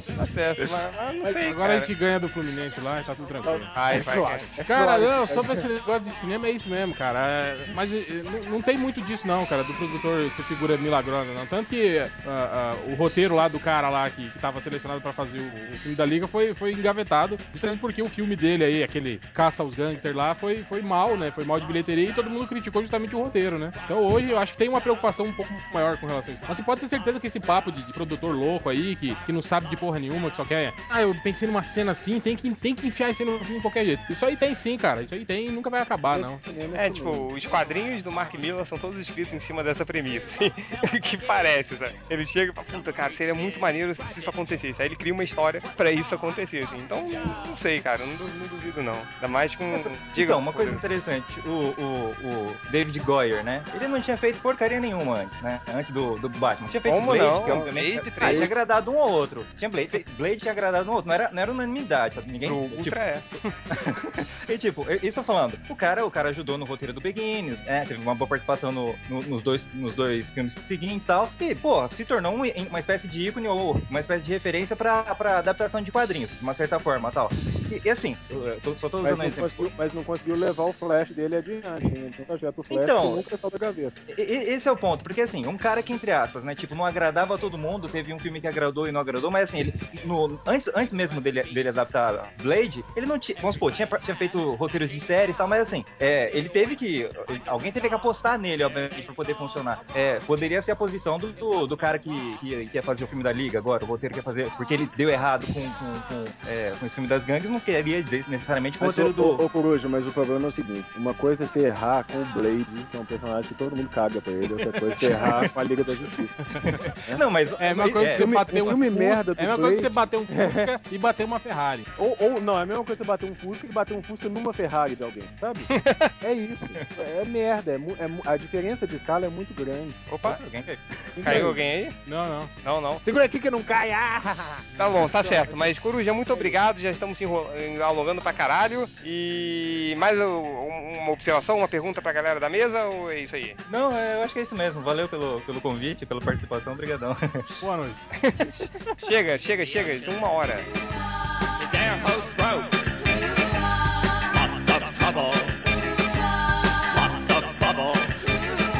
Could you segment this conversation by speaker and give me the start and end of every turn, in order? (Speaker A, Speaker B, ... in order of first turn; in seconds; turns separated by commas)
Speaker A: 0.2-1.9, Speaker B: 1.4-4.0, Speaker C: 3.4-5.6, Speaker A: 3.7-4.5, Speaker B: 4.5-36.4, Speaker C: 36.1-37.3, Speaker A: 36.7-50.8, Speaker D: 49.7-63.0, Speaker A: 56.8-58.5, Speaker A: 62.4-63.3, Speaker D: 63.7-79.7, Speaker C: 79.0-83.9, Speaker D: 82.7-83.2, Speaker D: 84.1-109.4, Speaker C: 108.8-116.3, Speaker D: 115.0-115.5, Speaker D: 116.6-118.6, Speaker B: 117.6-121.8, Speaker C: 118.0-120.7, Speaker C: 122.0-125.7, Speaker A: 125.7-126.1, Speaker C: 126.2-130.1, Speaker A: 130.1-130.4, Speaker D: 130.2-131.6, Speaker C: 131.2-131.6, Speaker A: 131.2-131.9, Speaker B: 132.1-132.5, Speaker A: 132.6-133.0, Speaker C: 133.0-135.7, Speaker A: 134.8-143.6, Speaker C: 136.3-136.6, Speaker D: 143.7-147.5, Speaker B: 147.6-148.0, Speaker A: 148.2-150.7, Speaker E: 149.4-150.6, Speaker E: 151.6-152.8, Speaker E: 154.3-155.6, Speaker E: 156.9-158.2